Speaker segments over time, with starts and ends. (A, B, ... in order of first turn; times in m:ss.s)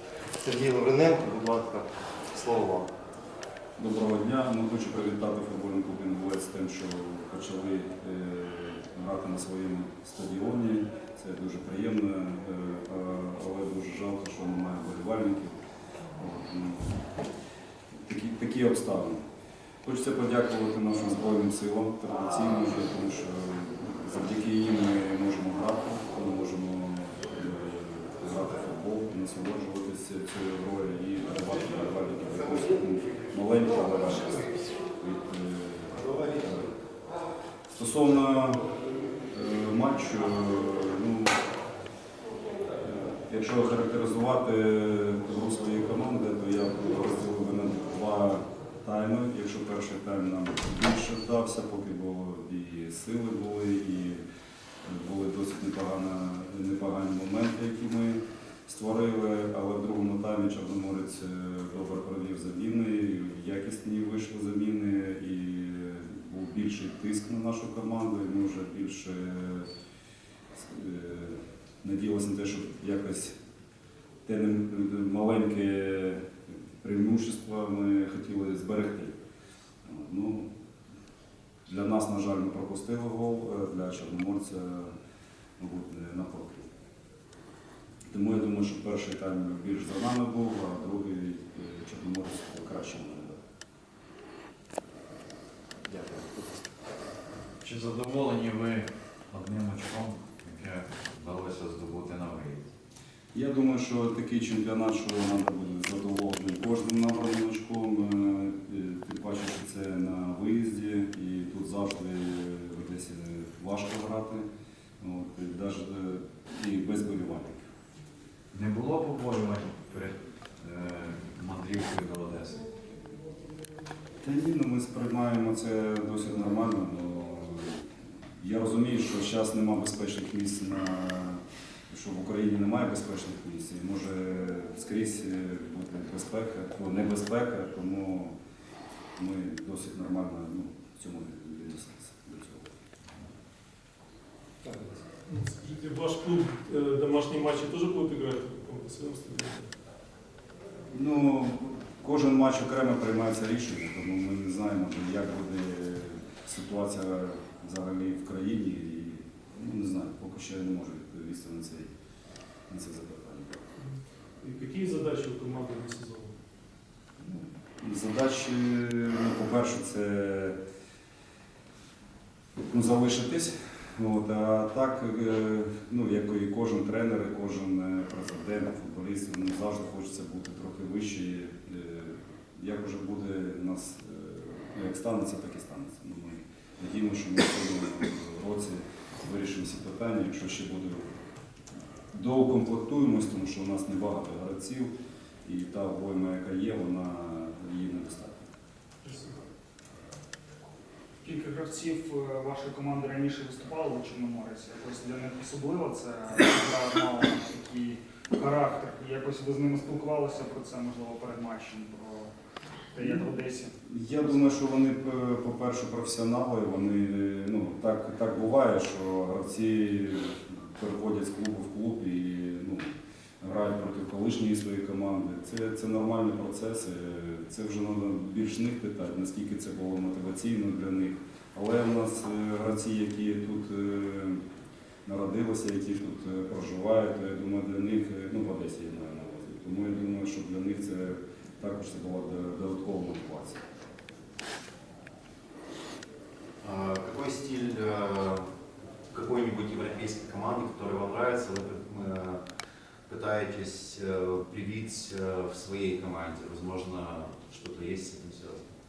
0:00.4-0:02.9 A
0:03.8-0:15.6 B
0:16.2-0:16.9 B
0:18.1-0:19.2 B
0:19.8-0:36.7 B
0:37.8-0:38.7 B
0:39.3-0:41.4 B
0:42.8-0:54.2 B
0:54.8-1:09.7 B
1:10.5-1:13.3 B
1:14.2-1:16.2 B
1:16.8-1:19.1 B
1:19.8-1:20.5 B
1:21.7-1:24.9 B
1:25.6-1:26.7 B
1:28.1-1:33.4 B
1:37.6-1:42.7 C
1:43.3-1:54.4 B
1:55.0-1:57.6 B
1:58.5-2:02.6 C
2:04.2-2:07.8 B
2:08.4-2:18.3 B
2:19.2-2:22.7 B
2:25.3-2:29.7 D
2:30.9-2:41.9 B
2:42.7-2:43.6 B
2:43.8-2:46.3 D
2:47.2-2:50.6 B
2:52.6-3:11.0 B
3:12.1-3:14.9 B
3:15.4-3:18.5 B
3:19.0-3:19.4 D
3:21.2-3:32.3 E
3:32.9-3:33.7 E
3:33.8-3:54.4 B
3:55.0-4:03.6 B
4:06.6-4:08.4 F
4:09.1-4:12.4 F
4:13.1-4:18.6 F